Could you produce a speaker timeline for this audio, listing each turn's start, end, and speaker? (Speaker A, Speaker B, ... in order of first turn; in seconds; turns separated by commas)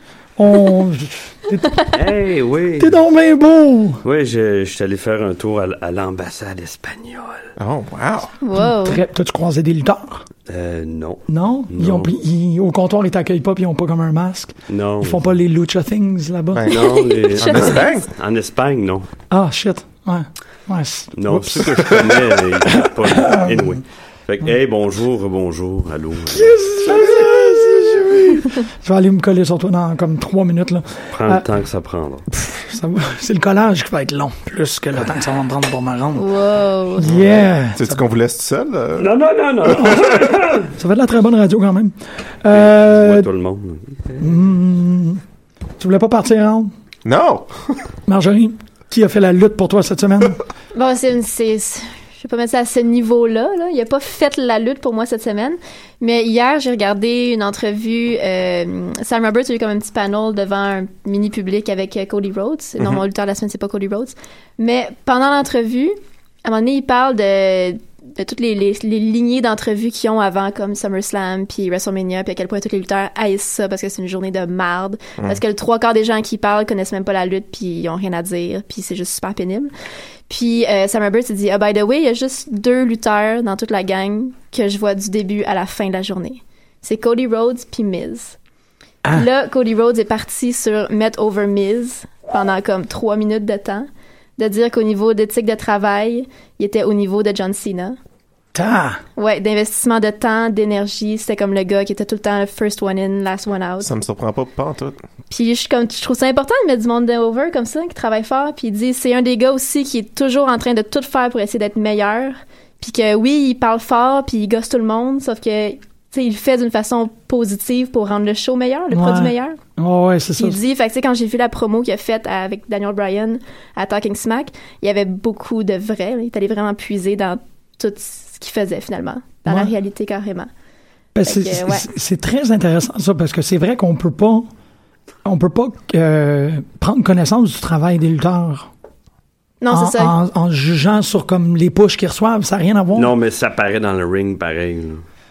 Speaker A: 0.4-1.9, Speaker B: 1.9-3.0, Speaker A: 2.8-4.0, Speaker B: 4.0-7.5, Speaker C: 7.6-8.3, Speaker D: 8.4-9.0, Speaker A: 8.6-10.2, Speaker B: 10.5-12.1, Speaker A: 11.3-16.9, Speaker B: 14.7-15.2, Speaker C: 16.5-18.1, Speaker B: 16.7-19.1, Speaker A: 19.3-23.8, Speaker B: 21.1-26.6, Speaker A: 26.3-31.4, Speaker B: 31.1-32.2, Speaker A: 32.3-36.4, Speaker D: 36.1-37.1, Speaker A: 37.0-38.0, Speaker C: 37.0-39.1, Speaker B: 39.0-40.7, Speaker A: 39.6-40.1, Speaker C: 39.7-40.1, Speaker A: 40.6-43.3, Speaker B: 42.5-44.3, Speaker A: 44.2-45.2, Speaker A: 45.8-46.7, Speaker C: 47.0-47.8, Speaker A: 48.0-50.4, Speaker D: 50.7-65.9, Speaker D: 66.4-79.7, Speaker D: 80.3-88.4, Speaker D: 89.1-98.0, Speaker A: 98.5-99.0, Speaker D: 99.2-103.9, Speaker C: 103.8-105.0, Speaker D: 105.3-119.6, Speaker A: 118.9-120.6, Speaker D: 120.4-130.5, Speaker A: 129.5-129.7, Speaker A: 131.1-134.5, Speaker D: 131.2-131.9, Speaker A: 135.2-138.7, Speaker D: 139.6-140.1, Speaker A: 139.7-143.1, Speaker B: 142.9-145.0